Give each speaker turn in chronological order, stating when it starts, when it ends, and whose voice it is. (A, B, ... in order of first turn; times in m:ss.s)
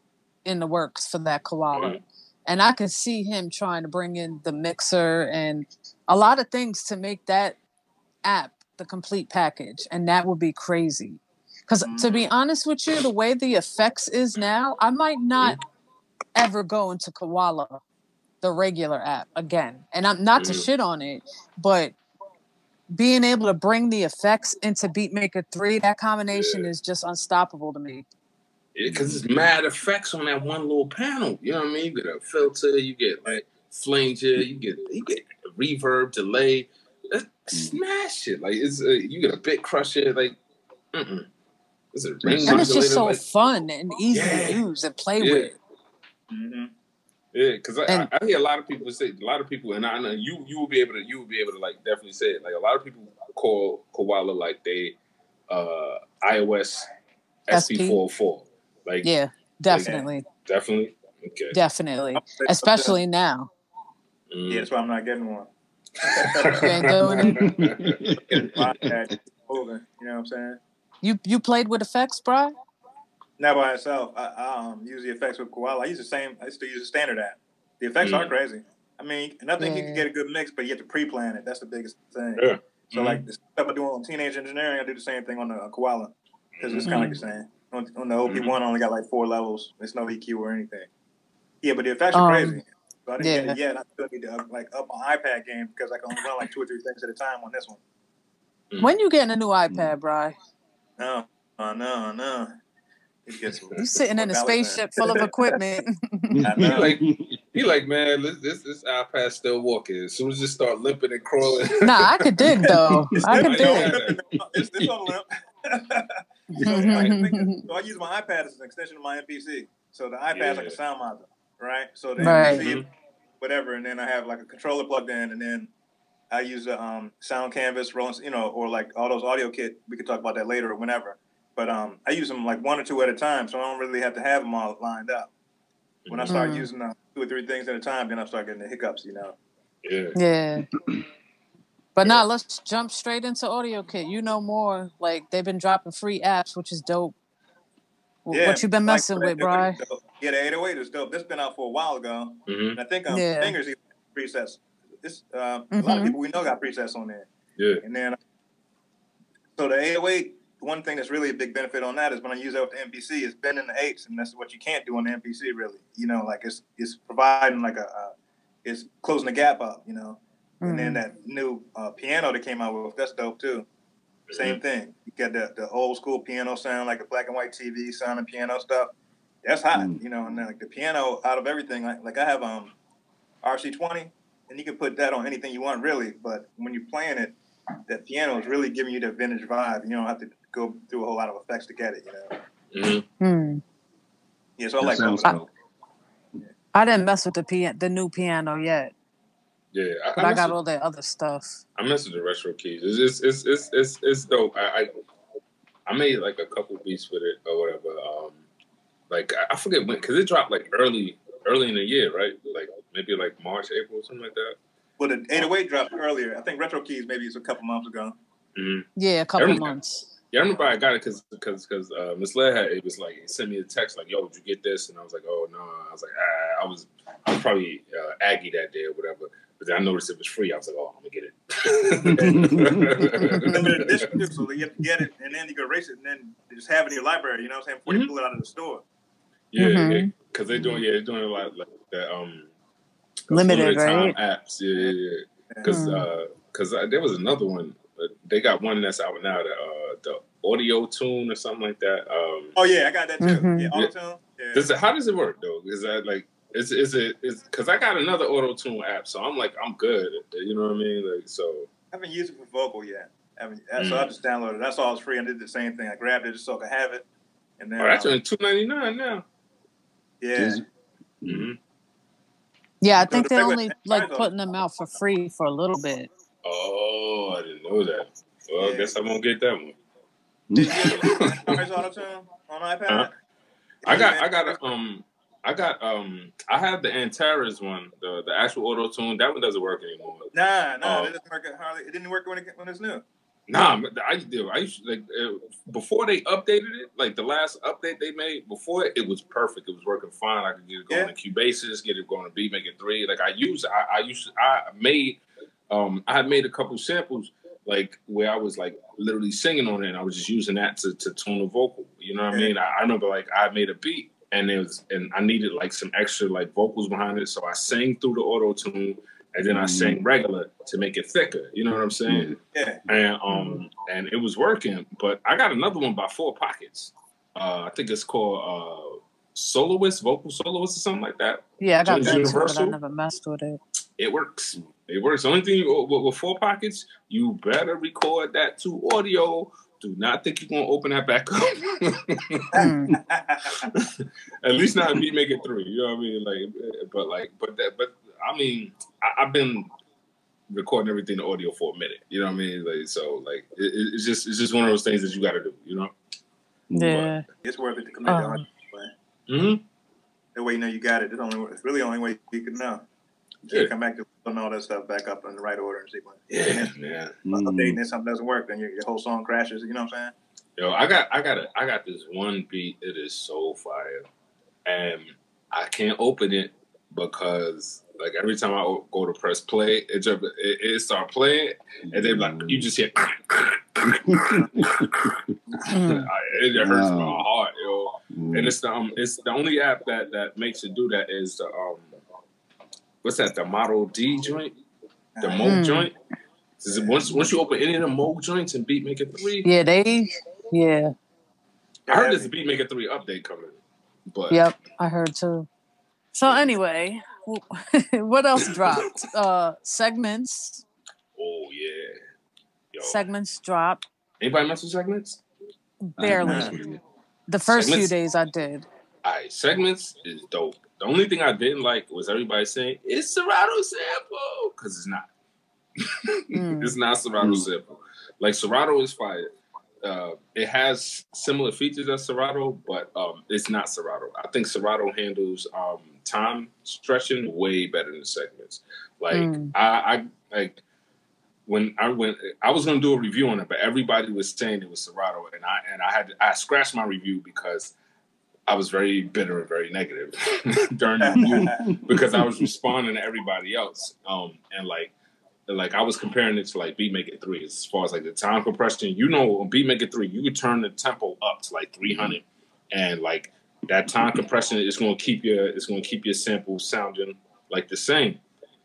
0:00.4-0:07.6 A
0:01.7-0:02.0 B
0:08.2-0:15.6 A
0:11.8-0:12.2 C
0:16.4-0:17.8 A
0:18.4-0:22.0 A
0:20.4-0:20.7 B
0:22.9-0:28.0 A
0:26.3-0:26.7 B
0:28.8-0:40.4 B
0:28.8-0:29.2 D
0:37.5-0:37.8 D
0:40.9-0:41.3 B
0:41.9-0:43.2 B
0:42.2-0:42.7 D
0:42.4-0:45.6 A
0:44.1-0:44.6 B
0:45.2-0:45.5 B
0:46.3-0:46.7 C
0:47.3-0:55.0 B
0:55.5-0:56.9 B
0:57.5-0:59.1 B
0:57.5-0:58.0 A
0:59.0-1:00.3 A
0:59.7-1:01.6 B
1:01.5-1:03.5 A
1:02.1-1:03.0 C
1:04.3-1:04.7 B
1:04.5-1:06.7 C
1:06.1-1:08.0 B
1:06.6-1:07.4 A
1:07.1-1:09.0 D
1:08.3-1:10.6 C
1:11.0-1:12.5 A
1:13.4-1:30.9 C
1:18.0-1:18.4 B
1:19.6-1:20.1 A
1:22.4-1:23.2 B
1:26.6-1:27.2 B
1:26.8-1:27.2 A
1:28.3-1:28.6 B
1:31.6-1:37.8 C
1:32.1-1:32.6 A
1:33.2-1:33.6 A
1:38.8-1:40.3 A
1:41.0-1:42.5 C
1:43.3-1:45.6 C
1:43.8-1:46.5 A
1:46.3-1:47.4 D
1:46.4-1:46.9 C
1:46.7-1:52.5 B
1:51.8-1:54.0 A
1:52.4-2:02.8 C
1:53.3-1:54.9 B
1:56.5-1:57.6 A
1:56.6-1:57.2 B
2:00.3-2:00.8 B
2:02.2-2:02.8 B
2:02.2-2:02.7 A
2:03.4-2:05.7 C
2:06.3-2:15.3 C
2:16.0-2:16.5 B
2:16.1-2:19.4 C
2:16.3-2:16.7 A
2:19.8-2:20.2 B
2:20.2-2:20.7 A
2:22.0-2:27.2 A
2:28.2-2:29.8 A
2:28.3-2:37.3 C
2:32.5-2:32.8 B
2:33.1-2:33.6 A
2:35.7-2:36.2 A
2:37.6-2:37.8 B
2:37.8-2:38.2 C
2:39.6-2:48.1 C
2:48.6-2:53.7 C
2:50.6-2:51.0 A
2:54.3-2:54.6 B
2:54.4-2:58.9 C
2:59.4-3:02.7 C
2:59.8-3:00.0 D
3:03.4-3:07.4 C
3:07.9-3:12.4 C
3:12.7-3:13.0 B
3:13.2-3:13.6 A
3:14.6-3:15.4 C
3:14.8-3:15.5 D
3:16.7-3:18.9 A
3:19.7-3:20.5 B
3:20.2-3:21.6 A
3:21.8-3:24.9 B
3:25.9-3:28.4 B
3:29.1-3:34.6 B
3:35.0-3:38.2 C
3:38.6-3:39.7 B
3:39.0-3:40.1 A
3:40.3-3:54.0 B
3:52.0-3:53.5 D
3:53.4-3:58.8 C
3:59.5-4:02.5 B
3:59.6-4:00.1 A
4:00.5-4:00.8 D
4:03.3-4:12.6 B
4:03.3-4:04.2 A
4:05.6-4:06.1 A
4:12.6-4:14.7 C
4:13.2-4:13.7 A
4:14.5-4:21.7 B
4:21.9-4:27.0 C
4:23.8-4:24.1 B
4:27.6-4:28.1 C
4:27.8-4:29.2 B
4:30.2-4:30.6 C
4:30.4-4:30.6 D
4:31.2-4:31.5 D
4:31.2-4:31.6 B
4:32.8-4:36.1 A
4:33.0-4:34.3 C
4:36.4-4:39.8 B
4:38.6-4:38.9 C
4:40.5-4:41.0 D
4:40.6-4:43.1 C
4:40.9-4:41.6 B
4:43.8-4:44.6 C
4:43.8-4:50.3 B
4:50.3-4:53.0 C
4:50.8-4:51.1 B
4:53.5-5:22.3 B
5:19.5-5:20.0 D
5:22.1-5:22.4 D
5:22.5-5:22.8 C
5:22.9-5:32.8 B
5:23.3-5:23.6 A
5:31.6-5:33.6 A
5:32.0-5:32.3 C
5:34.0-5:42.5 B
5:42.5-5:43.6 C
5:42.6-5:43.0 A
5:43.5-5:49.7 B
5:50.5-5:55.9 B
5:56.7-5:57.0 D
5:56.8-5:57.2 A
5:57.4-5:58.9 C
5:58.1-5:58.4 A
5:59.3-5:59.6 B
6:00.4-6:02.9 C
6:03.5-6:06.7 C
6:06.3-6:07.2 B
6:07.2-6:07.8 D
6:07.3-6:10.1 C
6:10.6-6:14.1 B
6:14.6-6:25.1 B
6:21.9-6:22.7 D
6:23.8-6:25.3 D
6:25.7-6:26.1 A
6:25.7-6:31.9 B
6:26.6-6:27.2 D
6:28.1-6:28.6 D
6:33.0-6:34.6 B
6:35.2-6:35.6 C
6:35.2-6:35.9 B
6:35.4-6:35.9 A
6:36.6-6:39.5 B
6:36.7-6:37.0 C
6:39.4-6:40.9 A
6:41.9-6:42.3 C
6:41.9-6:44.4 B
6:44.3-6:45.5 A
6:46.1-6:50.6 A
6:46.2-6:46.5 B
6:48.4-6:48.8 B
6:51.2-6:52.0 B
6:52.7-6:53.0 B
6:52.8-6:53.8 A
6:54.2-6:55.2 B
6:55.8-6:56.6 A
6:56.0-6:56.8 D
6:56.2-6:56.6 C
6:57.3-6:58.7 A
6:57.5-6:57.9 B
6:59.0-7:05.1 B
7:05.8-7:09.3 B
7:06.3-7:06.7 A
7:07.2-7:07.5 D
7:09.8-7:20.6 B
7:19.1-7:19.5 A
7:21.5-7:27.7 B
7:28.5-7:34.9 B
7:31.0-7:31.6 C
7:31.2-7:32.5 D
7:35.5-7:48.2 B
7:41.9-7:42.1 D